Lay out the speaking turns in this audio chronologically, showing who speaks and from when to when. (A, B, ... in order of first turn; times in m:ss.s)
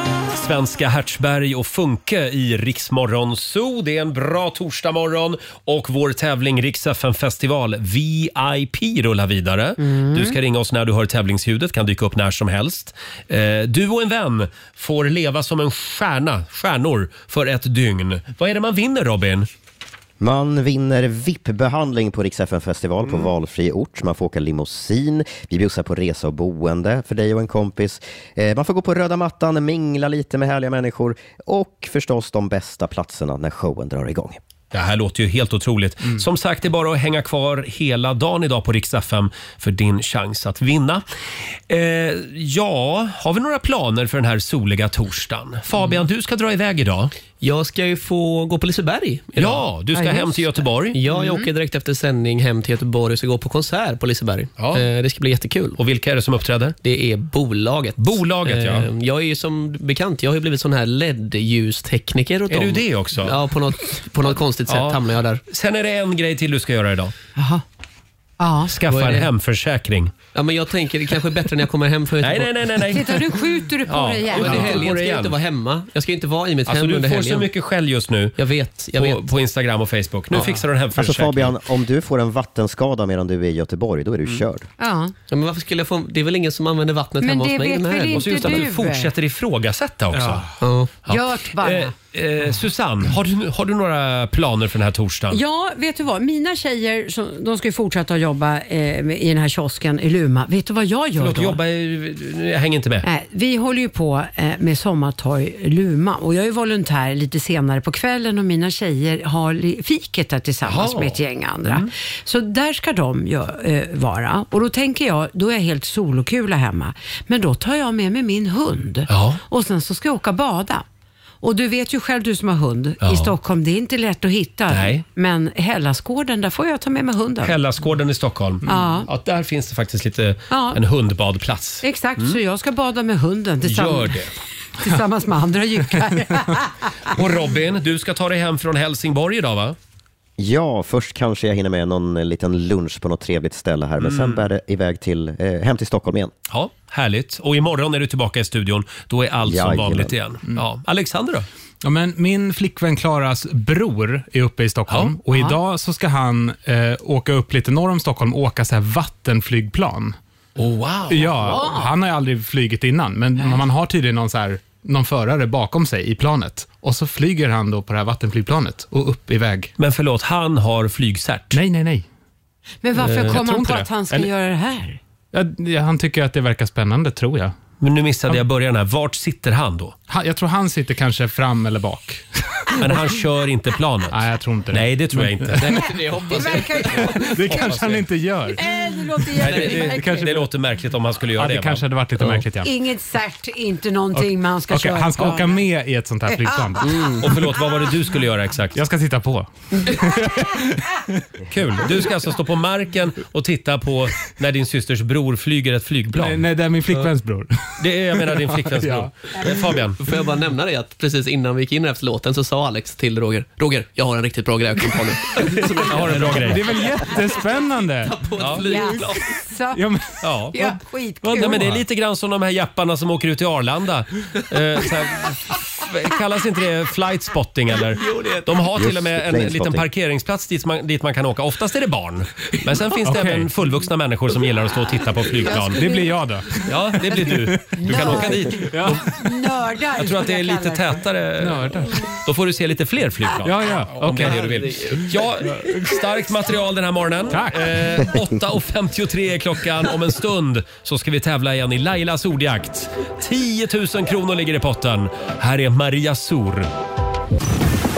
0:00.3-0:19.5 A
0:09.8-0:10.4 B
0:20.2-0:34.4 C
0:34.7-0:41.0 A
0:41.7-0:47.1 A
0:47.4-0:49.7 D
0:49.4-0:51.0 A
0:49.9-0:50.4 B
0:50.9-0:55.8 D
0:51.1-0:51.5 B
0:54.6-0:54.8 A
0:55.8-0:56.7 A
0:56.8-1:05.4 D
0:58.0-0:58.9 A
1:02.5-1:03.4 A
1:04.7-1:07.1 A
1:07.4-1:07.6 B
1:08.4-1:08.8 B
1:08.7-1:10.1 A
1:08.9-1:09.3 D
1:10.3-1:12.5 D
1:12.2-1:13.3 A
1:12.9-1:14.9 B
1:13.8-1:15.4 A
1:14.3-1:17.5 D
1:16.6-1:18.4 A
1:18.4-1:19.3 D
1:18.9-1:21.6 A
1:20.4-1:20.6 E
1:20.9-1:24.7 C
1:24.8-1:25.1 B
1:25.3-1:28.6 D
1:27.2-1:29.1 B
1:28.1-1:30.4 A
1:30.1-1:30.6 E
1:30.6-1:31.0 D
1:31.0-1:35.4 A
1:31.1-1:31.9 B
1:35.3-1:41.6 B
1:41.2-1:43.0 A
1:43.0-2:00.8 B
1:50.6-1:51.9 A
1:59.1-1:59.4 A
2:01.4-2:07.5 B
2:03.0-2:03.3 A
2:04.7-2:05.0 A
2:07.4-2:12.4 A
2:08.6-2:09.0 E
2:08.7-2:09.1 B
2:10.5-2:10.8 B
2:11.8-2:14.2 B
2:13.6-2:14.3 A
2:14.8-2:16.7 B
2:16.0-2:16.2 E
2:17.1-2:19.8 A
2:20.4-2:26.3 C
2:24.0-2:24.4 A
2:26.5-2:31.4 A
2:29.4-2:30.1 C
2:31.8-2:40.2 E
2:35.3-2:35.6 B
2:40.6-2:41.5 A
2:41.1-2:49.7 E
2:41.4-2:41.9 B
2:49.8-2:51.6 A
2:51.5-2:52.0 E
2:52.8-2:55.0 B
2:53.0-2:54.2 E
2:55.3-2:57.6 E
2:57.8-3:00.0 A
3:00.1-3:03.0 E
3:02.8-3:04.2 A
3:04.1-3:05.9 E
3:04.7-3:05.9 A
3:05.5-3:07.6 D
3:06.1-3:07.3 B
3:07.2-3:08.6 E
3:07.5-3:08.0 A
3:08.6-3:10.2 B
3:09.4-3:10.4 D
3:09.4-3:11.8 A
3:09.6-3:10.3 E
3:11.3-3:12.7 E
3:12.2-3:12.4 D
3:12.6-3:15.7 B
3:14.1-3:17.1 E
3:16.3-3:16.8 B
3:16.8-3:17.3 D
3:17.2-3:18.8 A
3:18.7-3:21.2 E
3:21.5-3:26.4 A
3:26.2-3:29.1 E
3:27.8-3:30.0 A
3:30.0-3:39.4 D
3:35.9-3:36.7 A
3:36.1-3:38.2 E
3:38.4-3:38.7 A
3:38.6-3:39.8 B
3:39.7-3:40.2 E
3:40.2-3:55.8 A
3:40.5-3:41.7 B
3:41.4-3:41.8 E
3:47.9-3:48.7 D
3:48.8-3:49.8 C
3:53.0-3:53.5 E
3:55.4-3:56.1 B
3:55.6-3:59.1 E
3:56.6-3:59.1 A
3:57.8-4:01.0 B
4:00.0-4:16.7 A
4:01.4-4:02.0 E
4:03.4-4:04.5 E
4:04.1-4:05.2 D
4:05.5-4:06.0 E
4:07.3-4:08.0 E